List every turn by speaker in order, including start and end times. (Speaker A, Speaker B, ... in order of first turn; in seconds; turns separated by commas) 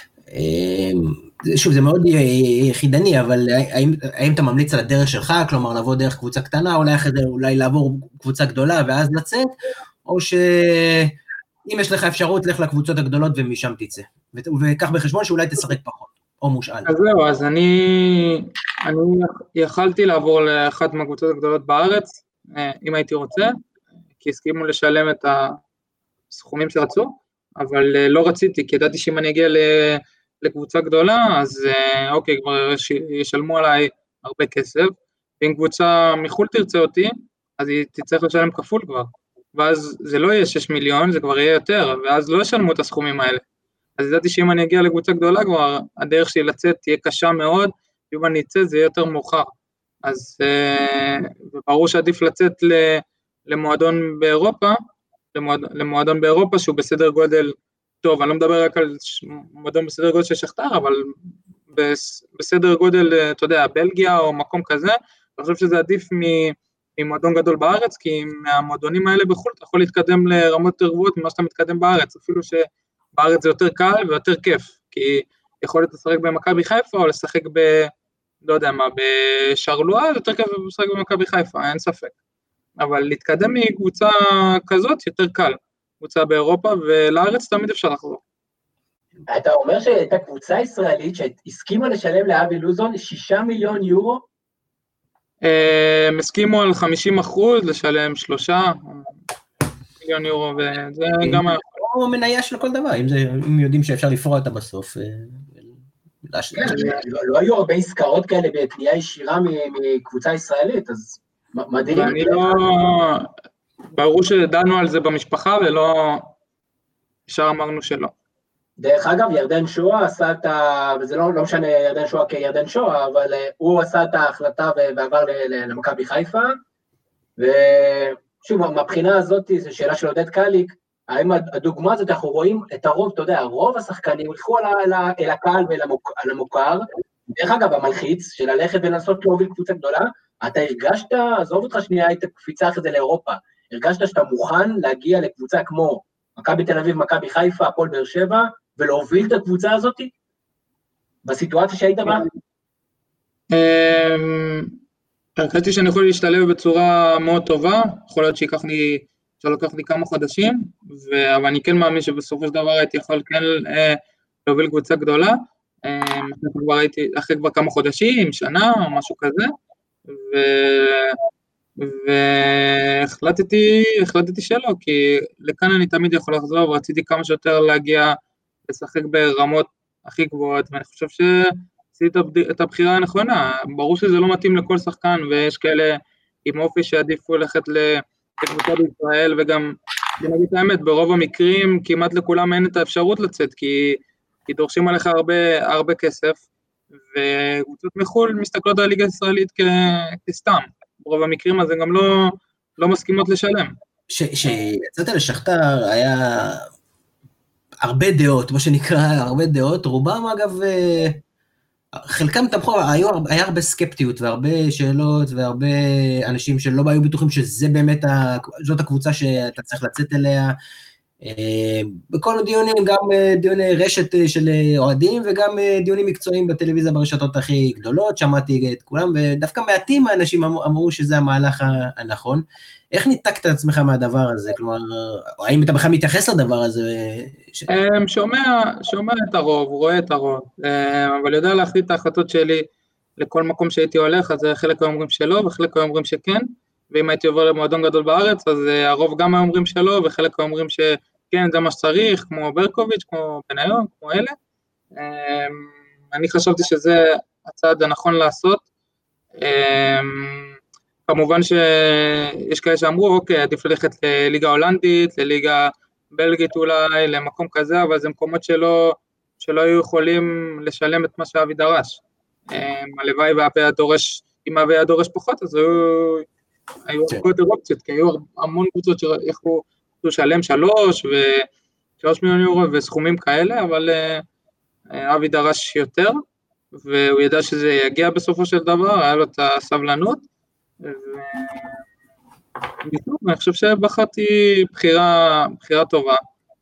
Speaker A: 0.3-9.5, Speaker A: 10.1-16.9, Speaker B: 16.9-23.5, Speaker B: 24.2-25.6, Speaker B: 26.3-43.4, Speaker B: 44.0-49.5, Speaker B: 50.0-54.8, Speaker B: 55.3-61.1, Speaker B: 61.7-77.9, Speaker B: 78.4-82.1, Speaker B: 82.8-88.2, Speaker C: 89.3-94.2, Speaker B: 95.4-99.2, Speaker B: 100.0-101.6, Speaker A: 101.2-107.0, Speaker C: 106.5-112.5, Speaker B: 111.9-113.3, Speaker B: 113.9-116.3, Speaker B: 117.3-118.1, Speaker C: 118.8-126.5, Speaker C: 127.4-150.1, Speaker C: 151.2-152.3, Speaker B: 153.5-154.7, Speaker B: 155.4-169.5, Speaker B: 170.1-171.2, Speaker B: 171.8-178.1, Speaker B: 178.7-196.4, Speaker B: 197.1-203.7, Speaker A: 204.1-206.7, Speaker A: 207.8-211.2, Speaker A: 212.0-220.5, Speaker A: 221.2-237.7, Speaker B: 237.7-242.7, Speaker B: 243.2-254.3, Speaker B: 254.9-258.6, Speaker B: 259.4-260.5, Speaker B: 261.1-276.2, Speaker B: 276.9-281.5, Speaker B: 282.0-284.2, Speaker B: 284.9-286.2, Speaker B: 286.7-290.2, Speaker B: 290.8-291.8, Speaker B: 292.8-296.2